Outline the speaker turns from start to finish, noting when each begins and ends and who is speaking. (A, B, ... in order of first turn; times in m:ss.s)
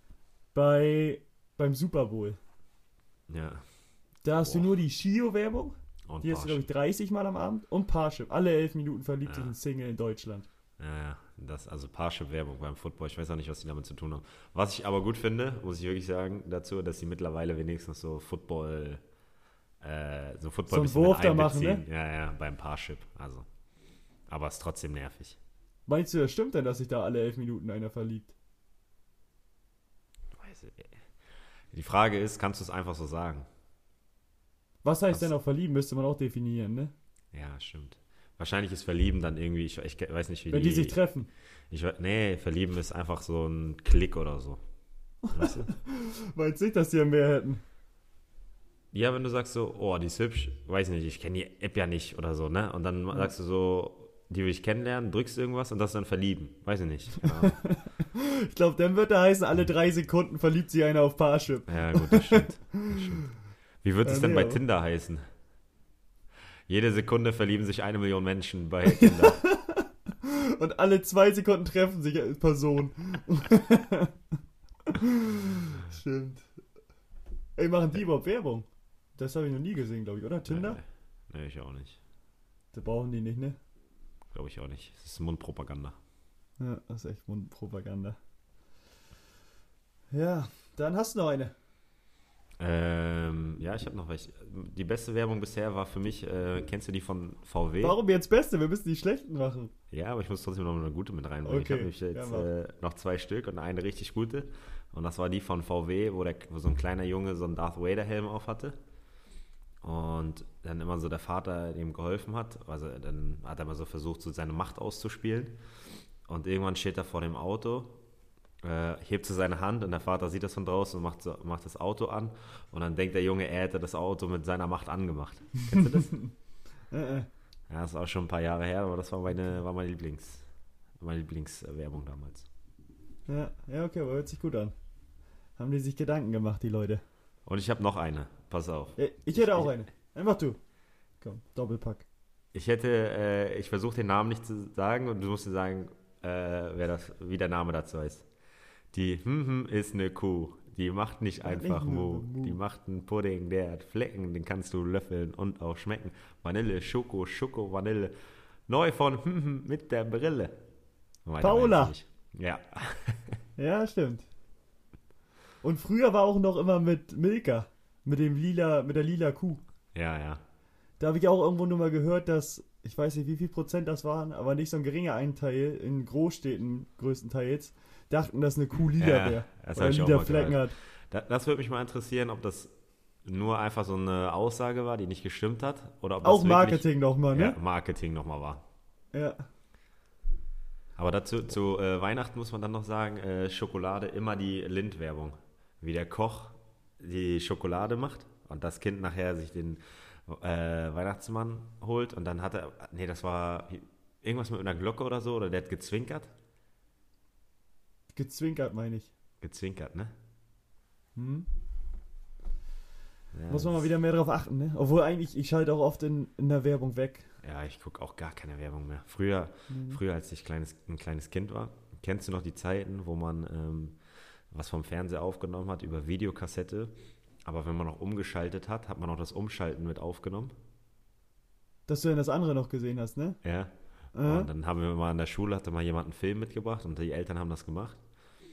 0:00.5-0:02.4 A
0:03.3-0:03.6 B
0:04.2-0:10.5 A
0:04.4-0:04.7 B
0:06.1-0:06.7 B
0:09.2-0:09.5 B
0:10.8-0:19.0 B
0:19.8-0:23.4 B
0:20.7-0:21.8 A
0:24.3-0:25.4 B
0:25.9-0:28.3 A
0:30.4-0:30.9 B
0:31.7-0:33.4 B
0:34.8-0:36.9 A
0:37.3-0:41.0 B
0:40.5-0:41.3 A
0:41.7-0:44.6 B
0:45.3-0:47.6 A
0:45.3-0:45.7 B
0:48.9-0:57.6 B
0:57.2-1:03.3 A
1:01.7-1:05.2 B
1:04.0-1:04.6 A
1:06.7-1:09.4 B
1:08.8-1:14.1 A
1:14.9-1:16.4 A
1:17.6-1:20.8 A
1:20.4-1:22.0 B
1:22.7-1:23.6 A
1:24.3-1:26.0 B
1:26.6-1:28.2 A
1:30.1-1:31.5 A
1:32.6-1:38.0 B
1:37.8-1:39.7 A
1:39.9-1:48.8 B
1:41.4-1:42.5 A
1:49.8-1:55.6 B
1:56.3-1:58.0 B
1:58.6-2:06.1 B
2:05.7-2:06.3 A
2:06.9-2:07.3 A
2:07.7-2:10.4 B
2:11.0-2:12.5 B
2:13.3-2:14.7 A
2:15.6-2:17.0 A
2:17.4-2:19.7 B
2:19.0-2:20.6 A
2:21.2-2:22.0 A
2:22.5-2:28.2 B
2:28.9-2:38.1 B
2:31.4-2:32.6 A
2:38.7-2:40.5 B
2:41.2-2:43.4 B
2:41.4-2:41.9 A
2:43.6-2:44.2 A
2:45.6-2:49.6 A
2:49.9-2:50.4 B
2:51.0-3:00.7 A
2:59.0-3:02.7 B
3:03.2-3:08.6 B
3:06.2-3:07.6 A
3:09.1-3:09.4 A
3:11.0-3:26.3 B
3:28.1-3:29.1 A
3:29.4-3:30.1 B
3:31.2-3:31.5 A
3:33.3-3:33.9 B
3:33.5-3:37.3 A
3:37.4-3:44.0 B
3:39.7-3:40.0 A
3:44.5-3:46.9 B
3:47.4-3:50.5 B
3:51.9-3:53.4 A
3:53.4-3:53.7 B
3:54.1-3:54.5 A
3:54.2-3:58.0 B